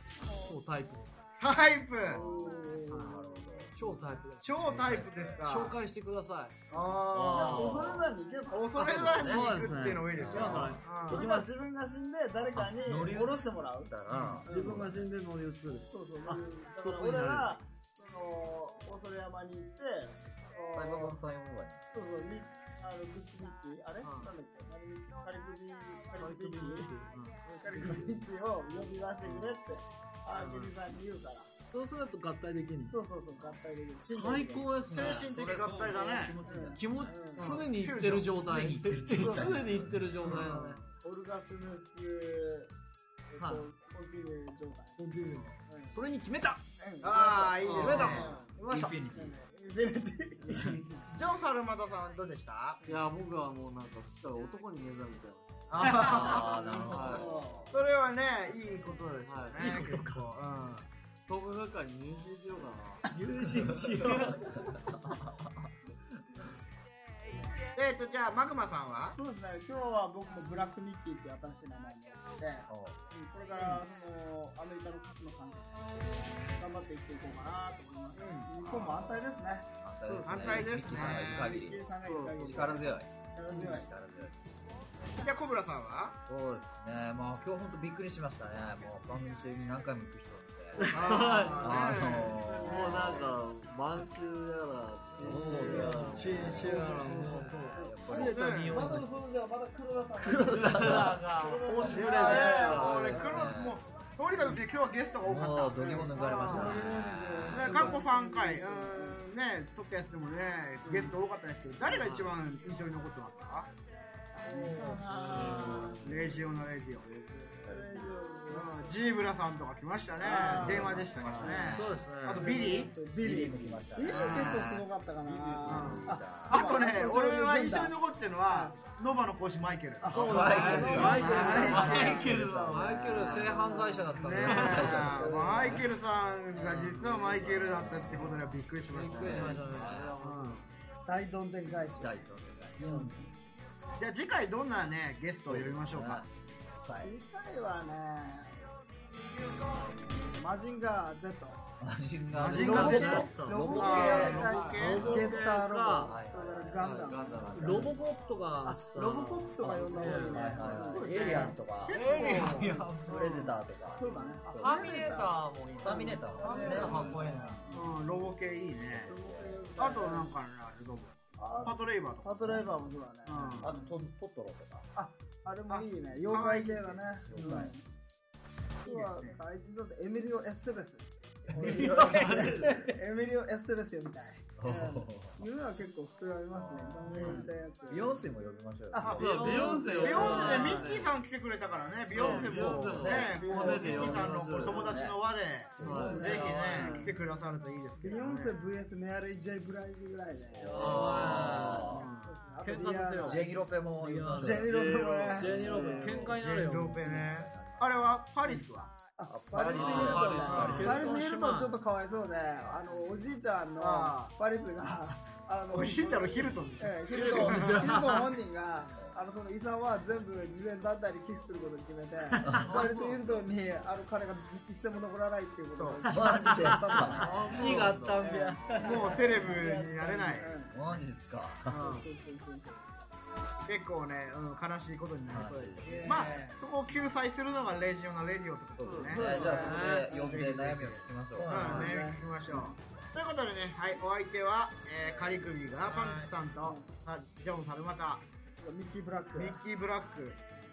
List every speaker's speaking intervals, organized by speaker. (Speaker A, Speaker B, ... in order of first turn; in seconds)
Speaker A: 0.2-0.5, 2.1-4.0, 6.7-9.4, 10.3-14.9, 15.9-21.2, 21.9-26.9, 27.5-31.5, 32.9-34.8, 36.4-37.6, 40.3-42.7, 43.3-45.0, 45.6-46.0, 46.8-48.6, 49.1-51.0, 56.4-57.7, 69.1-75.8, 76.5-79.7, 80.9-84.0, 90.8-93.4, 95.5-103.5, 105.8-109.2, 110.8-111.2, 114.3-116.1, 117.7-118.9, 120.2-128.8, 130.0-132.3, 133.2-135.8, 141.1-142.2, 142.8-143.3, 146.9-148.7, 150.0-151.6, 152.6-158.0, 158.7-161.6, 162.6-167.2, 169.1-170.3, 171.4-173.9, 174.9-177.8, 178.8-188.3, 188.9-190.9, 192.2-195.1, 195.8-197.2, 198.0-203.5, 204.3-206.2, 209.2-230.8, 231.7-233.0, 235.9-236.5, 239.1-239.9, 241.5-242.8, 246.5-246.9, 248.6-249.6
Speaker B: 0.3-1.2, 2.9-6.6, 8.8-11.5, 14.1-17.6, 24.0-24.3, 26.1-28.3, 29.2-29.5, 30.3-30.7, 31.7-33.0, 34.0-35.3, 36.7-40.8, 43.4-43.7, 45.0-46.6, 47.2-49.0, 55.8-56.3, 59.6-60.2, 63.1-64.6, 80.1-81.1, 90.8-91.6, 95.4-99.2, 100.2-103.1, 114.4-116.0, 121.7-122.5, 124.1-124.7, 130.1-135.8, 138.9-140.2, 152.5-156.2, 157.5-163.2, 164.6-167.8, 181.6-182.8, 190.4-190.8, 194.1-194.5, 196.1-196.8, 200.6-204.7, 205.3-207.2, 209.7-211.8, 217.1-218.3, 222.3-223.0, 226.1-229.2, 236.1-236.6, 239.4-240.1, 241.4-242.0
Speaker C: 1.4-2.3, 4.4-5.8, 6.7-7.9, 8.5-11.3, 34.9-36.4, 37.5-38.4, 47.0-48.4, 51.1-52.8, 55.7-56.7, 57.7-60.9, 67.8-69.2, 80.2-81.6, 85.2-86.2, 90.9-93.0, 98.2-98.9, 101.8-106.9, 107.5-113.7, 116.0-117.1, 118.5-122.9, 125.7-130.2, 131.1-132.0, 134.2-139.6, 140.2-140.7, 144.0-146.3, 152.3-155.3, 161.1-162.7, 166.4-167.0, 167.7-169.2, 169.8-172.7, 173.3-173.7, 175.7-177.6, 178.8-179.4, 189.9-198.6, 206.3-208.9, 210.6-210.9, 213.8-214.3, 215.7-217.9, 225.8-226.0, 228.8-230.6, 233.7-248.2, 249.3-250.4
Speaker D: 3.0-3.7, 4.8-5.3, 7.1-8.1, 8.9-9.4, 10.1-10.8, 12.5-15.0, 20.7-21.8, 34.9-37.6, 38.3-40.5, 48.0-49.4, 50.5-50.8, 55.9-57.8, 63.5-63.8, 64.9-65.4, 72.7-73.0, 78.2-79.2, 79.8-81.9, 82.4-84.4, 86.3-90.9, 91.6-93.2, 95.2-97.0, 97.7-98.5, 100.3-101.2, 102.7-103.8, 105.2-108.0, 120.5-122.0, 123.0-126.6, 130.1-135.8, 136.6-138.6, 139.2-140.1, 141.9-143.2, 145.4-146.3, 146.8-147.1, 151.8-155.4, 156.0-157.8, 159.6-164.8, 165.8-167.8, 168.9-169.8, 173.6-174.9, 177.2-177.8, 181.9-182.9, 184.6-185.5, 186.5-190.1, 192.3-195.2, 200.6-202.1, 203.2-204.7, 207.1-207.9, 209.3-211.1, 222.4-222.9, 226.1-228.1, 230.7-231.9, 235.3-236.3, 238.8-241.9
Speaker E: 47.6-48.4, 50.5-50.8, 52.8-57.4, 59.2-59.6, 61.3-63.1, 64.0-64.4, 82.0-82.8, 91.0-91.6, 92.6-96.8, 115.1-116.5, 117.0-118.1, 120.7-121.8, 130.7-132.8, 136.6-138.3, 138.9-140.7, 154.1-155.3, 156.8-157.9, 161.0-161.5, 166.9-167.2, 182.1-182.7, 187.1-187.5, 189.0-191.2, 192.1-195.0, 195.8-197.1, 200.6-201.8, 204.5-206.4, 209.7-211.0, 222.8-223.2, 227.3-228.0, 231.7-232.1, 238.8-239.6